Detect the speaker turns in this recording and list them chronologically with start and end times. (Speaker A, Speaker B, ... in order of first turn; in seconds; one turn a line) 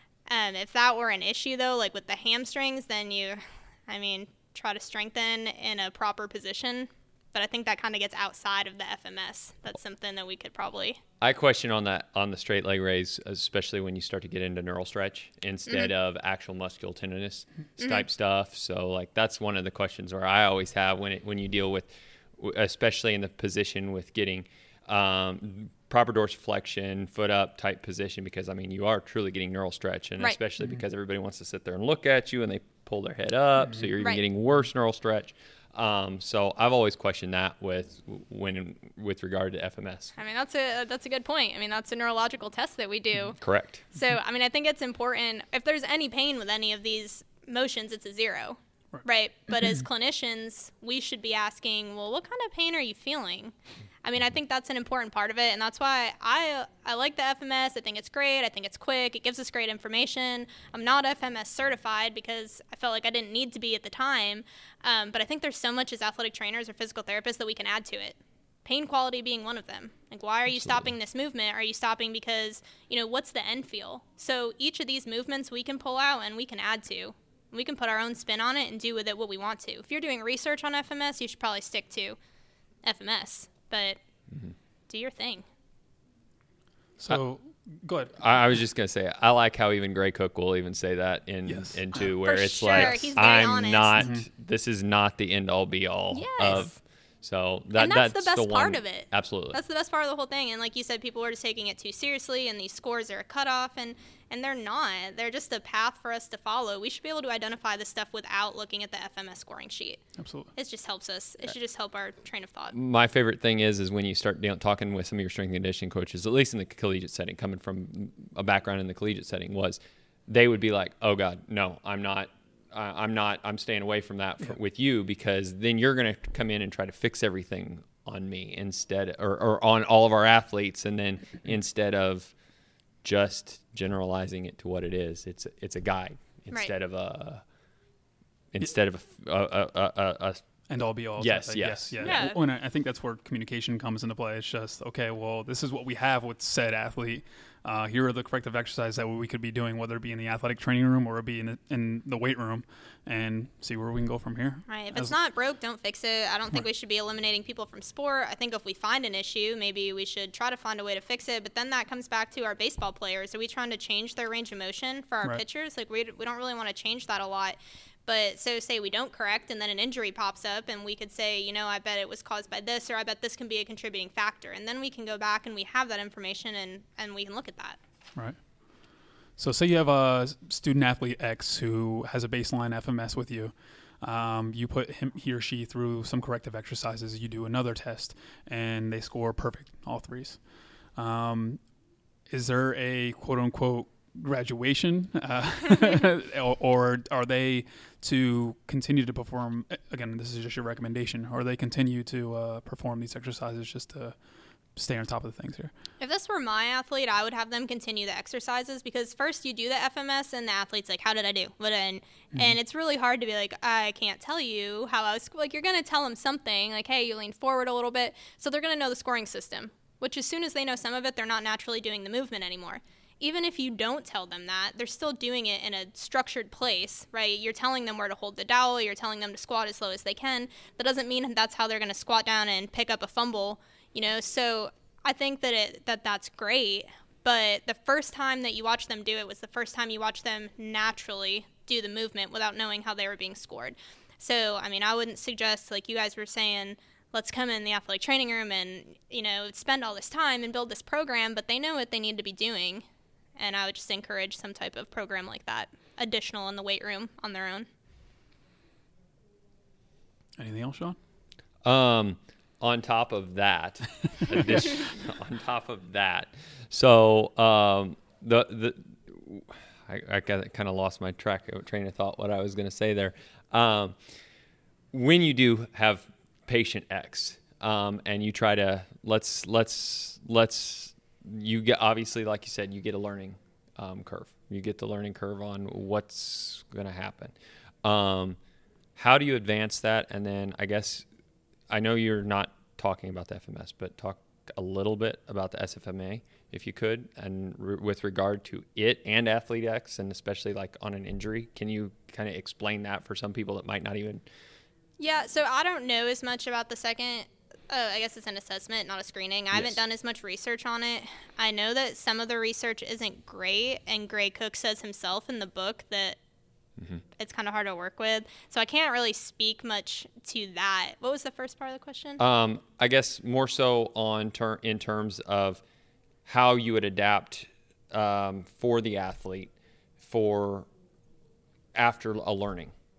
Speaker A: 0.3-11.0
Speaker B: 11.2-40.1
Speaker A: 17.8-18.0
Speaker A: 40.2-43.4
Speaker B: 43.4-43.9
Speaker A: 43.9-82.2
Speaker B: 70.6-70.9
Speaker A: 82.8-84.0
Speaker A: 84.9-85.4
Speaker C: 87.0-88.2
Speaker B: 88.2-99.6
Speaker C: 91.5-92.1
Speaker A: 92.2-94.1
Speaker C: 94.0-94.3
Speaker A: 96.1-96.7
Speaker A: 97.8-110.0
Speaker C: 110.2-110.5
Speaker A: 110.5-112.7
Speaker B: 112.7-132.3
Speaker B: 133.0-137.4
Speaker B: 138.5-140.4
Speaker C: 140.7-155.1
Speaker B: 141.2-142.2
Speaker A: 142.0-142.4
Speaker A: 154.7-177.8
Speaker C: 178.2-178.4
Speaker C: 179.4-190.4
Speaker C: 190.9-191.6
Speaker C: 192.3-204.2
Speaker C: 204.8-205.7
Speaker A: 206.0-252.8
Speaker A: 253.4-257.7
Speaker C: 260.4-261.0
Speaker B: 261.6-273.9
Speaker B: 274.9-288.4
Speaker B: 288.9-291.1
Speaker B: 291.7-304.2
Speaker A: 305.0-316.2
Speaker B: 309.5-309.8
Speaker B: 316.8-317.0
Speaker A: 317.2-322.2
Speaker B: 322.2-325.6
Speaker B: 326.2-330.7
Speaker B: 331.8-332.7